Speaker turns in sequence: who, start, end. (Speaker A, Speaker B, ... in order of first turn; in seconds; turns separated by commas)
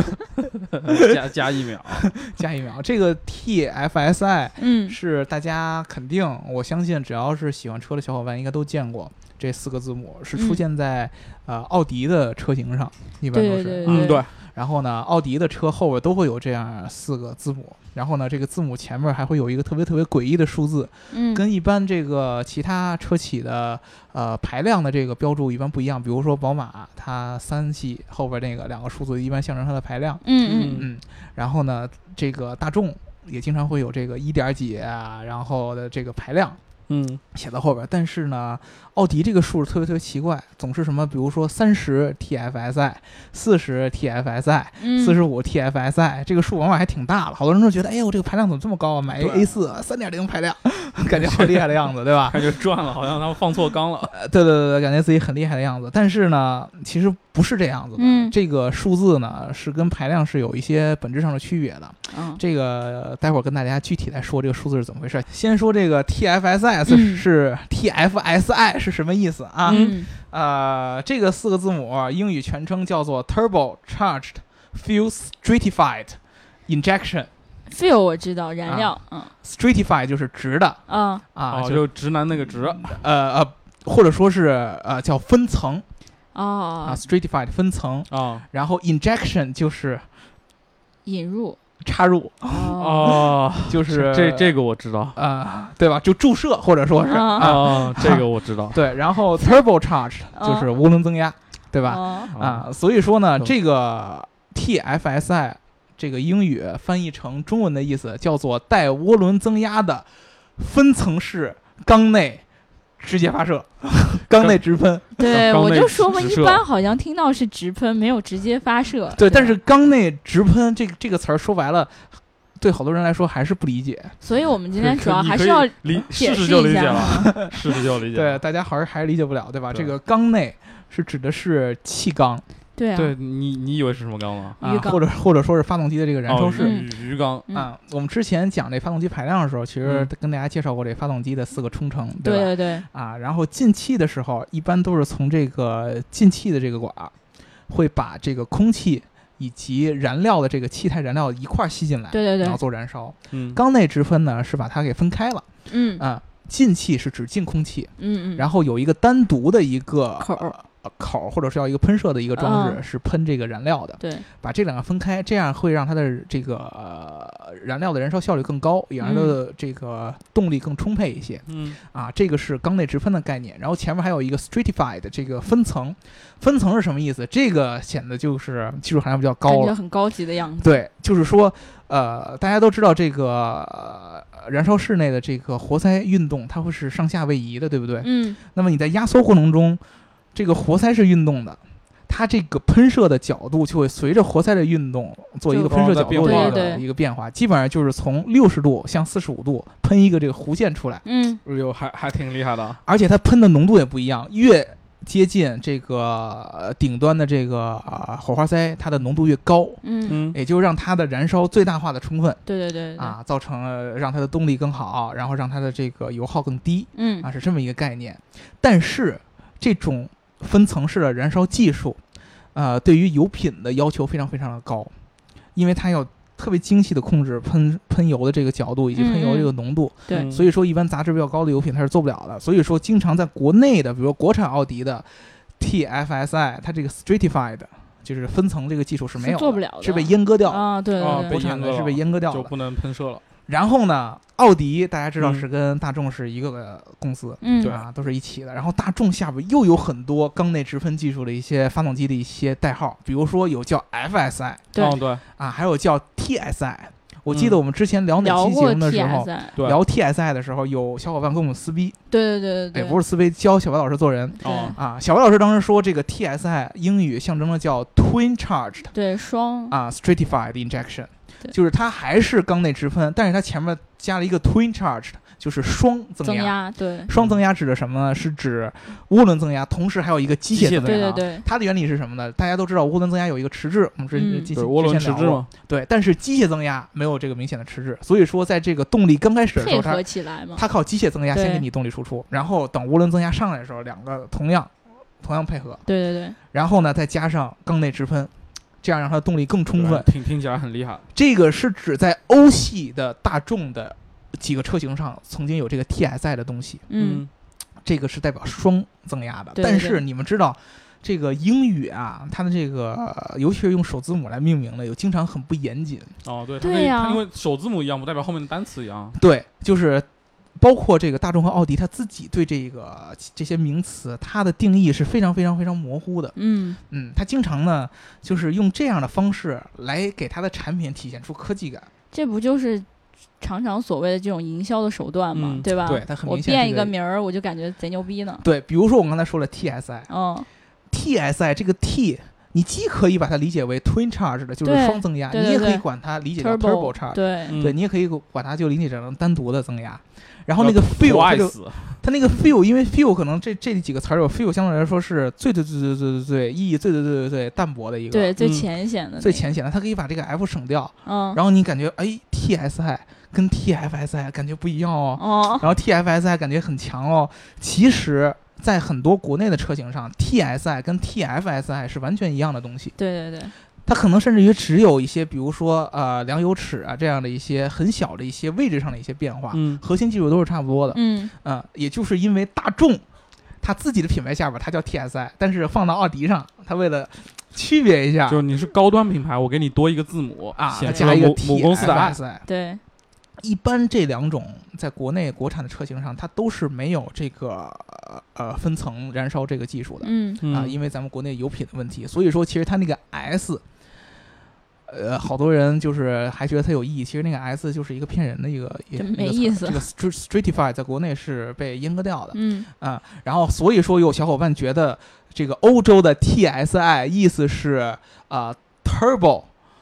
Speaker A: 0.8-2.1, Speaker B: 2.0-36.6, Speaker C: 4.6-5.0, Speaker C: 10.3-10.6, Speaker C: 13.3-14.2, Speaker A: 13.9-14.3, Speaker C: 21.1-21.4, Speaker C: 30.2-30.8, Speaker A: 30.4-30.9, Speaker A: 36.9-37.2, Speaker B: 37.3-52.6, Speaker C: 44.8-45.2, Speaker A: 49.1-49.5, Speaker A: 51.1-54.1, Speaker B: 54.1-77.3, Speaker C: 58.0-58.3, Speaker C: 62.1-62.4, Speaker C: 66.9-67.2, Speaker A: 69.7-69.9, Speaker C: 69.7-70.1, Speaker C: 77.7-79.3, Speaker B: 78.7-81.8, Speaker C: 80.9-81.2, Speaker A: 81.5-83.0, Speaker B: 82.8-85.9, Speaker C: 86.3-87.0, Speaker B: 86.8-90.1, Speaker A: 88.1-88.4, Speaker C: 91.0-91.6, Speaker B: 91.8-94.6, Speaker C: 92.5-93.2, Speaker A: 92.8-95.2, Speaker B: 95.1-112.4, Speaker C: 97.1-97.5, Speaker A: 97.4-98.8, Speaker C: 100.4-100.7, Speaker C: 101.8-102.3, Speaker A: 102.3-102.7, Speaker B: 113.0-115.4, Speaker A: 114.3-114.6, Speaker C: 115.2-119.6, Speaker A: 115.2-116.6, Speaker B: 119.2-124.2, Speaker C: 124.2-127.3, Speaker A: 124.8-128.4, Speaker B: 126.9-132.4, Speaker C: 132.8-133.1, Speaker A: 132.9-134.6, Speaker B: 134.6-136.8, Speaker C: 134.6-135.0, Speaker A: 136.3-137.5, Speaker C: 136.6-137.0, Speaker B: 137.5-147.1, Speaker A: 139.8-140.1, Speaker C: 142.2-142.8, Speaker B: 147.7-155.5, Speaker C: 152.1-152.6, Speaker A: 153.3-153.6, Speaker C: 155.7-156.0, Speaker B: 156.0-179.8, Speaker C: 158.0-158.4, Speaker C: 160.2-160.6, Speaker C: 162.4-162.8, Speaker C: 164.0-164.3, Speaker C: 169.0-169.4, Speaker A: 171.5-171.8, Speaker C: 179.4-180.8, Speaker B: 180.6-189.8, Speaker C: 188.0-188.4, Speaker B: 190.3-201.0, Speaker C: 195.5-196.8, Speaker A: 195.7-196.7, Speaker C: 201.1-201.4, Speaker A: 201.4-202.8, Speaker B: 202.8-212.4, Speaker C: 209.8-210.2, Speaker A: 210.1-210.4, Speaker C: 212.5-213.2, Speaker B: 213.0-222.0, Speaker C: 217.0-217.3, Speaker B: 222.5-224.9, Speaker B: 225.6-242.5, Speaker C: 228.9-229.5, Speaker A: 230.1-230.5, Speaker C: 239.2-241.3, Speaker A: 241.0-243.2, Speaker B: 243.5-262.0, Speaker A: 245.2-245.5, Speaker C: 247.4-247.7, Speaker A: 254.8-255.2, Speaker A: 257.3-257.6, Speaker C: 258.2-259.6, Speaker C: 262.1-263.0, Speaker B: 262.7-268.9, Speaker C: 264.4-264.8, Speaker A: 264.4-264.7, Speaker C: 268.9-269.8, Speaker B: 269.7-295.8, Speaker C: 276.2-277.1, Speaker A: 280.5-281.2, Speaker C: 280.9-281.4, Speaker C: 284.1-284.5, Speaker A: 284.5-285.5, Speaker C: 289.6-290.6, Speaker C: 291.3-291.6, Speaker C: 295.9-296.4, Speaker B: 296.5-298.3, Speaker B: 298.8-300.1, Speaker A: 299.7-301.1, Speaker B: 301.1-306.9, Speaker C: 306.9-307.3, Speaker A: 307.0-307.3, Speaker B: 307.8-316.2, Speaker C: 309.6-310.0, Speaker A: 316.2-319.2, Speaker C: 316.6-317.2, Speaker B: 319.2-326.3, Speaker C: 326.4-326.8, Speaker B: 326.9-331.9, Speaker C: 332.1-332.9, Speaker C: 333.4-338.4, Speaker A: 335.4-335.7, Speaker B: 335.8-336.9, Speaker B: 338.4-340.1, Speaker C: 340.1-340.5, Speaker B: 340.9-358.4, Speaker C: 344.6-345.9, Speaker C: 346.4-347.6, Speaker A: 347.5-347.8, Speaker A: 350.6-352.0, Speaker C: 358.1-359.5, Speaker A: 358.4-358.7, Speaker B: 359.2-372.9, Speaker C: 361.1-361.4, Speaker C: 365.2-365.7, Speaker C: 373.0-373.5, Speaker B: 373.9-383.0, Speaker A: 379.5-379.8, Speaker C: 380.9-381.3, Speaker B: 383.6-388.4, Speaker A: 388.3-392.2, Speaker B: 390.6-392.4, Speaker C: 390.8-391.1, Speaker C: 391.9-392.8, Speaker B: 393.4-403.6, Speaker C: 400.0-400.4, Speaker A: 400.4-400.8, Speaker B: 404.9-419.5, Speaker C: 409.0-409.8, Speaker C: 412.3-412.7